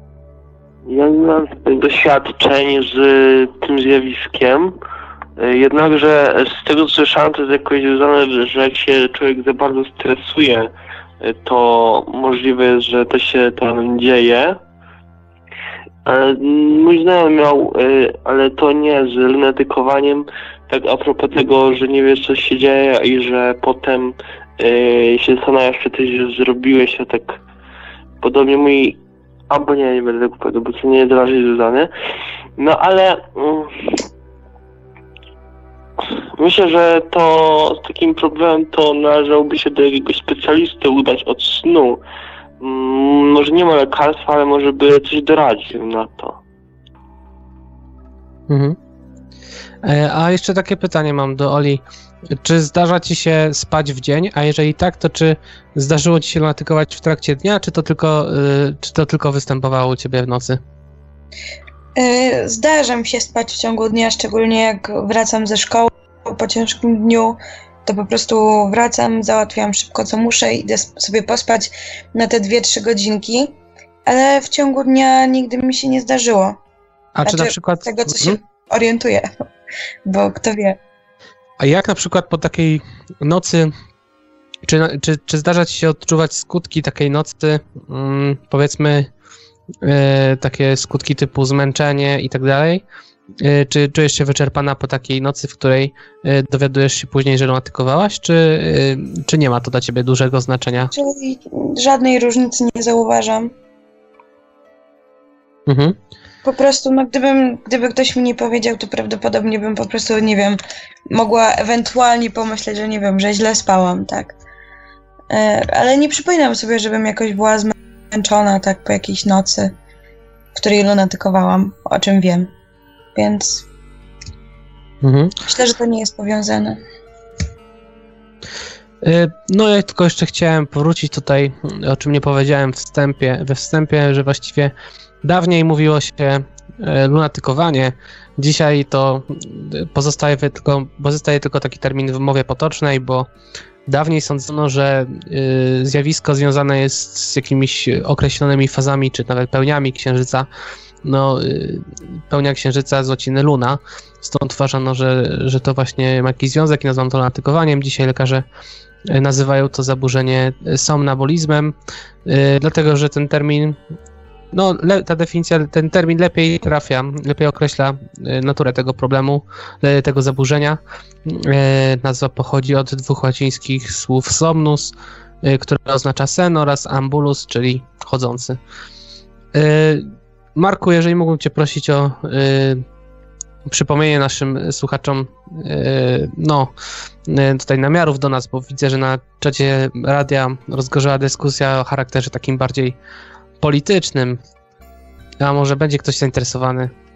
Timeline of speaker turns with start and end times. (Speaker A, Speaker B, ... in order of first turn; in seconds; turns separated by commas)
Speaker A: 0.9-4.8, Speaker A: 5.4-14.6, Speaker A: 16.1-27.4, Speaker A: 28.2-31.9, Speaker A: 32.6-34.0, Speaker A: 36.0-42.0, Speaker A: 42.6-46.4, Speaker B: 48.5-48.8, Speaker B: 49.8-60.6, Speaker C: 62.0-73.5, Speaker C: 74.1-76.6, Speaker B: 77.2-78.4, Speaker C: 77.3-79.3, Speaker C: 80.1-80.8, Speaker B: 81.6-83.7, Speaker B: 84.7-89.1, Speaker B: 89.8-92.8, Speaker B: 93.4-100.9, Speaker C: 100.9-103.5, Speaker B: 105.7-106.0, Speaker C: 106.4-114.3, Speaker C: 115.3-119.8, Speaker C: 120.5-122.5, Speaker C: 123.2-123.7, Speaker B: 125.0-125.4, Speaker C: 125.5-126.8, Speaker B: 129.0-143.3, Speaker B: 143.9-150.5, Speaker B: 151.0-158.4, Speaker B: 159.1-161.7, Speaker B: 162.3-163.8, Speaker B: 164.5-178.6, Speaker B: 179.5-182.8, Speaker B: 183.7-186.7, Speaker B: 187.3-193.0, Speaker B: 193.6-194.4, Speaker B: 195.4-196.9